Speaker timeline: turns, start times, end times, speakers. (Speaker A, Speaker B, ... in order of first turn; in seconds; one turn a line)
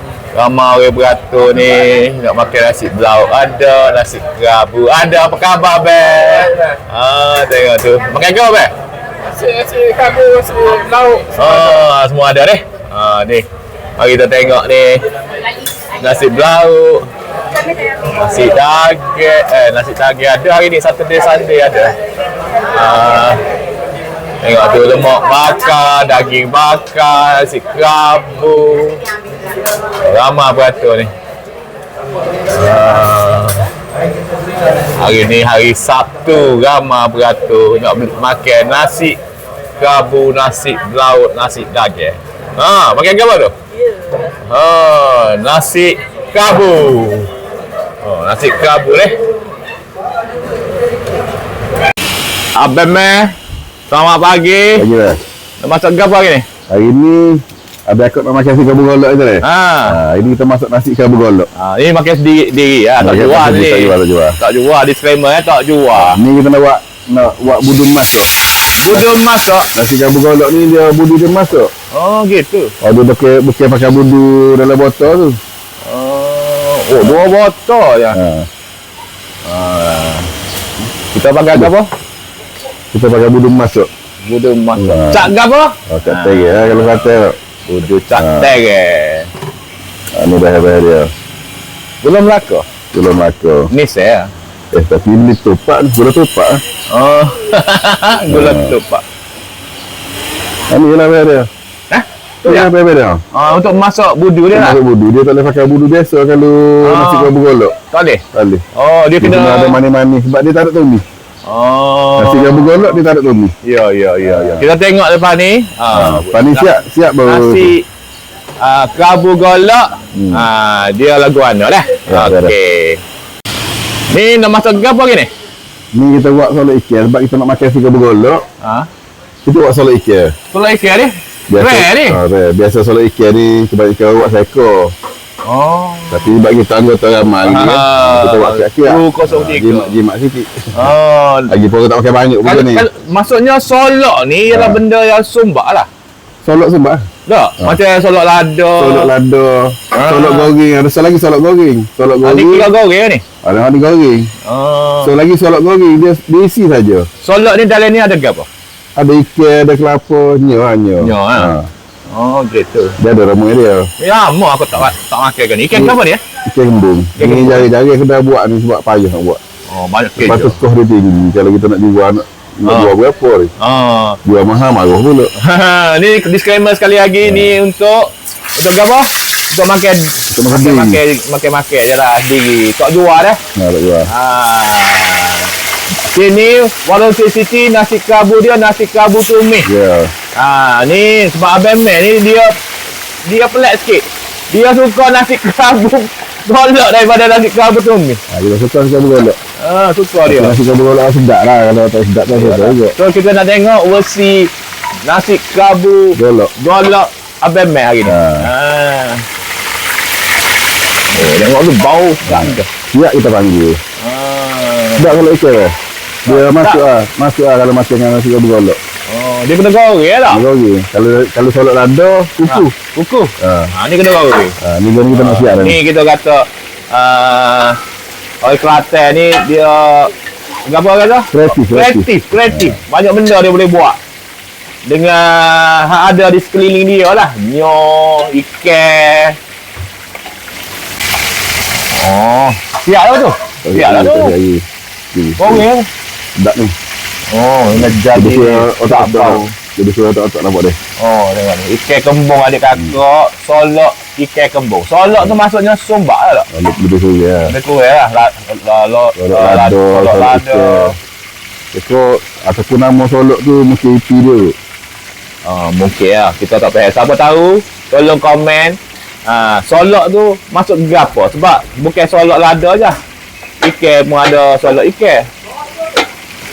Speaker A: 0.3-8.7
Speaker A: 11.1-15.0
Speaker A: 16.0-17.1
Speaker A: 18.1-21.9
Speaker A: 22.7-23.4
Speaker A: 24.4-29.0
Speaker A: 30.0-31.1
Speaker A: 32.5-33.6
Speaker A: 34.9-39.2
Speaker A: 39.8-43.5
Speaker A: 44.5-47.3
Speaker A: 48.0-49.1
Speaker A: 52.6-53.3
Speaker A: 53.9-54.8
Speaker B: 54.8-55.2
Speaker A: 55.6-56.5
Speaker B: 56.7-61.5
Speaker A: 59.4-60.0
Speaker A: 61.6-66.2
Speaker B: 63.0-64.4
Speaker B: 65.9-68.3
Speaker A: 68.8-69.7
Speaker B: 69.7-71.7
Speaker A: 71.9-72.7
Speaker B: 72.8-75.4
Speaker A: 75.8-78.2
Speaker B: 77.0-77.2
Speaker B: 78.1-78.5
Speaker A: 79.5-80.3
Speaker A: 81.1-81.9
Speaker B: 82.9-83.9
Speaker A: 84.2-89.3
Speaker B: 84.8-85.3
Speaker B: 85.9-87.4
Speaker B: 88.1-88.5
Speaker B: 90.2-91.1
Speaker A: 92.0-92.7
Speaker B: 92.9-93.7
Speaker A: 93.7-94.3
Speaker B: 94.7-96.6
Speaker A: 96.9-99.0
Speaker B: 98.3-98.8
Speaker B: 100.7-101.5
Speaker A: 101.9-102.7
Speaker B: 102.5-103.2
Speaker A: 103.3-104.8
Speaker B: 104.5-107.8
Speaker A: 106.8-107.3
Speaker A: 107.9-108.2
Speaker B: 108.3-108.6
Speaker A: 108.8-109.8
Speaker B: 109.2-111.0
Speaker A: 111.5-113.0
Speaker B: 112.2-113.5
Speaker A: 113.6-116.7
Speaker B: 114.2-114.7
Speaker B: 115.9-117.7
Speaker A: 117.2-117.8
Speaker A: 118.6-123.0
Speaker B: 120.2-120.5
Speaker B: 122.1-122.5
Speaker A: 124.1-125.3
Speaker B: 125.9-128.4
Speaker A: 128.6-128.9
Speaker B: 129.4-130.3
Speaker A: 130.5-132.2
Speaker B: 131.5-134.9
Speaker A: 135.4-136.3
Speaker B: 136.1-140.9
Speaker A: 137.4-139.9
Speaker A: 140.8-141.6
Speaker B: 141.5-142.8
Speaker A: 142.4-145.9
Speaker B: 144.5-144.8
Speaker B: 146.4-147.1
Speaker A: 147.3-149.1
Speaker B: 148.8-152.7
Speaker A: 149.9-150.5
Speaker A: 152.2-153.2
Speaker B: 153.4-154.3
Speaker A: 154.5-155.2
Speaker B: 155.0-157.1
Speaker A: 157.2-158.5
Speaker B: 159.0-161.7
Speaker A: 161.0-161.5
Speaker A: 162.1-163.0
Speaker B: 163.0-163.9
Speaker A: 164.0-166.2
Speaker B: 165.7-169.4
Speaker A: 167.2-167.7
Speaker A: 169.7-170.6
Speaker B: 170.2-173.5
Speaker A: 172.7-172.9
Speaker A: 173.6-174.2
Speaker B: 174.2-175.3
Speaker A: 175.4-183.4
Speaker B: 177.2-177.6
Speaker B: 180.3-181.0
Speaker B: 183.6-184.1
Speaker A: 184.1-185.5
Speaker A: 186.1-189.7
Speaker B: 189.7-190.1
Speaker A: 190.4-192.6
Speaker A: 193.2-198.2
Speaker B: 198.3-199.4
Speaker A: 199.6-200.6
Speaker B: 200.3-203.0
Speaker A: 202.3-204.5
Speaker A: 205.1-209.2
Speaker B: 206.2-206.5
Speaker B: 208.1-208.5
Speaker A: 211.1-212.7
Speaker B: 212.3-213.8
Speaker A: 214.0-215.2
Speaker B: 215.0-215.7
Speaker A: 216.2-216.8
Speaker B: 216.3-218.8
Speaker A: 219.1-220.4
Speaker B: 220.3-222.8
Speaker A: 222.5-224.6
Speaker B: 223.4-223.7
Speaker B: 224.6-225.8
Speaker A: 225.1-227.8
Speaker A: 228.4-230.1
Speaker A: 230.7-234.0
Speaker B: 231.3-232.8
Speaker A: 234.9-239.4
Speaker A: 241.9-244.3
Speaker B: 243.7-245.7
Speaker A: 245.4-245.9
Speaker B: 246.4-246.7
Speaker A: 247.3-249.5
Speaker B: 247.8-250.8
Speaker A: 251.0-256.5
Speaker B: 256.5-257.5
Speaker A: 257.5-261.0
Speaker B: 259.2-260.9
Speaker B: 261.7-264.6
Speaker A: 265.4-273.0
Speaker A: 273.6-275.2